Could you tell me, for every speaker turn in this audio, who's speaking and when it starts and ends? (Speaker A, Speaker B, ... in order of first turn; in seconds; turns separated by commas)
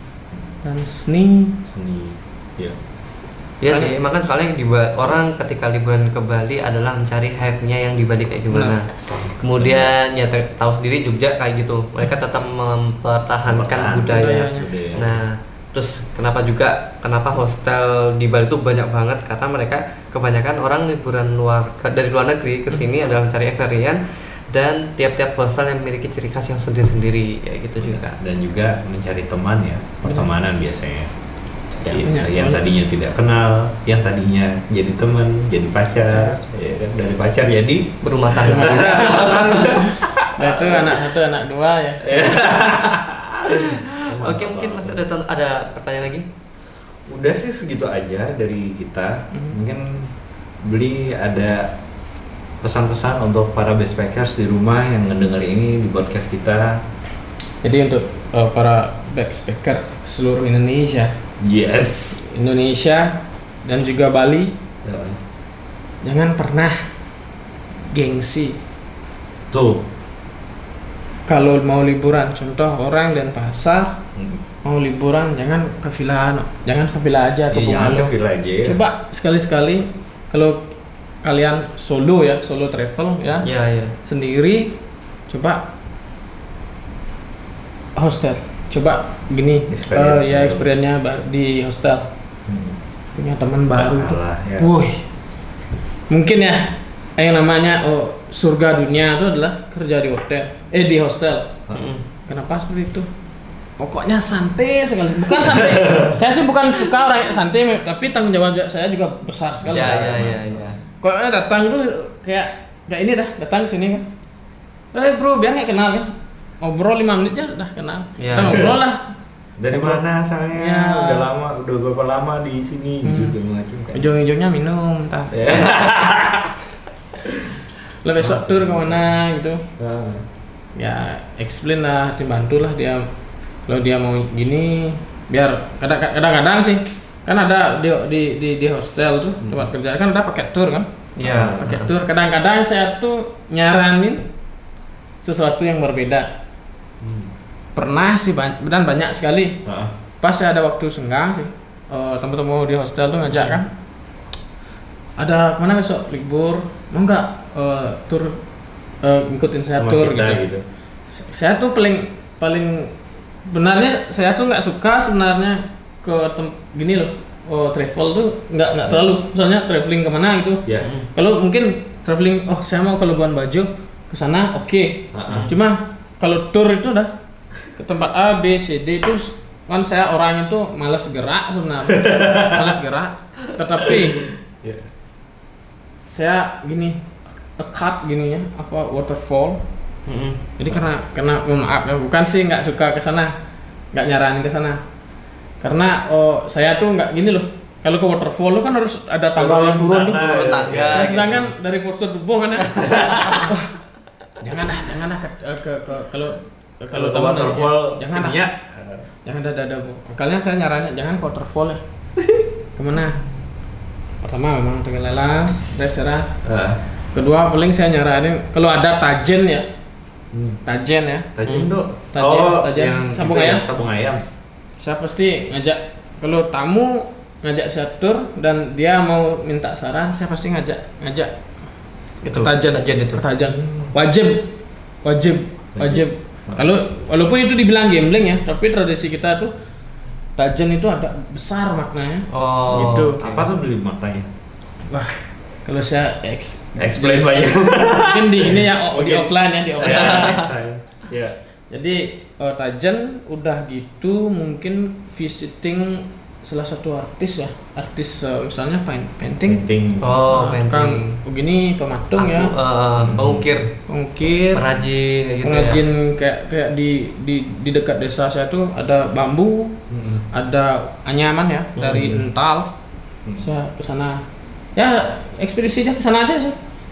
Speaker A: 0.6-1.6, Speaker B: 1.6-2.8, Speaker C: 3.6-28.1, Speaker A: 3.7-3.9, Speaker B: 9.1-9.9, Speaker B: 13.4-15.2, Speaker A: 14.1-14.7, Speaker B: 27.8-31.1, Speaker B: 31.8-41.0, Speaker A: 31.9-32.6, Speaker A: 36.1-36.4, Speaker C: 38.0-39.8, Speaker A: 38.5-42.9, Speaker B: 42.0-45.0, Speaker C: 43.9-46.2, Speaker B: 47.1-50.1, Speaker B: 50.6-51.7, Speaker B: 52.6-56.8, Speaker A: 57.6-61.1, Speaker B: 61.4-62.2, Speaker A: 62.2-64.5, Speaker B: 64.8-65.2, Speaker A: 66.0-66.8, Speaker A: 67.9-68.6, Speaker B: 69.5-69.8, Speaker A: 71.3-74.0, Speaker B: 74.2-74.4, Speaker A: 74.6-78.1, Speaker B: 77.5-78.8, Speaker A: 78.6-83.5, Speaker C: 83.4-84.0, Speaker A: 84.0-84.8, Speaker A: 85.3-85.7, Speaker A: 88.0-92.1, Speaker B: 89.7-90.7, Speaker B: 92.5-92.8, Speaker A: 93.1-95.0, Speaker B: 93.7-94.7, Speaker A: 96.1-101.6, Speaker B: 101.7-101.9, Speaker C: 101.7-102.0, Speaker A: 102.2-103.1, Speaker A: 103.8-110.3, Speaker B: 105.4-106.2, Speaker B: 109.6-110.7, Speaker C: 109.7-110.8, Speaker A: 111.0-114.1, Speaker A: 114.9-119.1, Speaker C: 118.2-118.7, Speaker B: 119.6-124.0, Speaker A: 119.7-120.0, Speaker A: 120.5-121.3, Speaker A: 123.0-123.3, Speaker A: 123.9-125.5, Speaker B: 125.3-126.6, Speaker B: 127.2-127.5, Speaker A: 128.0-129.6, Speaker B: 128.2-129.0, Speaker B: 129.8-130.2, Speaker A: 130.7-133.1, Speaker A: 133.7-144.3, Speaker B: 139.4-139.7, Speaker C: 141.2-141.9, Speaker B: 141.2-141.7, Speaker A: 145.2-146.3, Speaker B: 147.0-147.3, Speaker A: 147.7-149.6, Speaker B: 149.7-149.9, Speaker A: 150.2-153.7, Speaker C: 153.3-153.6, Speaker A: 155.2-158.4, Speaker A: 159.0-160.4, Speaker B: 159.7-160.6, Speaker A: 161.1-162.9, Speaker A: 163.4-177.1, Speaker C: 170.8-171.1, Speaker B: 175.1-175.5, Speaker C: 175.3-175.5, Speaker A: 177.7-184.3, Speaker B: 181.9-182.8, Speaker B: 183.8-184.8, Speaker A: 186.1-189.6, Speaker C: 190.1-190.4, Speaker A: 190.6-193.3, Speaker A: 193.9-194.8, Speaker A: 195.6-203.7, Speaker B: 199.3-201.3, Speaker C: 200.1-201.5, Speaker C: 202.9-203.4, Speaker A: 204.4-208.4, Speaker B: 206.9-209.1, Speaker A: 209.2-211.8, Speaker A: 212.8-213.2, Speaker A: 214.2-216.4, Speaker B: 216.4-216.8, Speaker A: 217.1-219.7, Speaker B: 220.3-220.6, Speaker A: 220.6-221.3, Speaker B: 221.3-224.2, Speaker C: 221.4-221.7, Speaker A: 222.1-223.6, Speaker A: 224.8-231.3, Speaker C: 232.2-233.2, Speaker A: 232.3-234.5, Speaker B: 233.5-233.9, Speaker A: 235.0-239.5, Speaker B: 235.8-236.7, Speaker A: 240.4-243.4, Speaker C: 242.3-243.4, Speaker B: 243.2-244.3, Speaker A: 244.9-250.3, Speaker B: 246.8-251.4, Speaker C: 249.8-250.4, Speaker A: 251.7-259.6, Speaker B: 259.4-260.1, Speaker C: 260.0-261.1, Speaker A: 260.3-262.5, Speaker C: 262.1-263.7, Speaker B: 263.0-263.6, Speaker A: 263.9-264.6, Speaker C: 264.5-265.8, Speaker A: 265.4-269.8, Speaker B: 269.9-270.2, Speaker A: 270.3-272.7, Speaker B: 271.8-272.2, Speaker A: 273.4-274.2, Speaker A: 274.7-276.6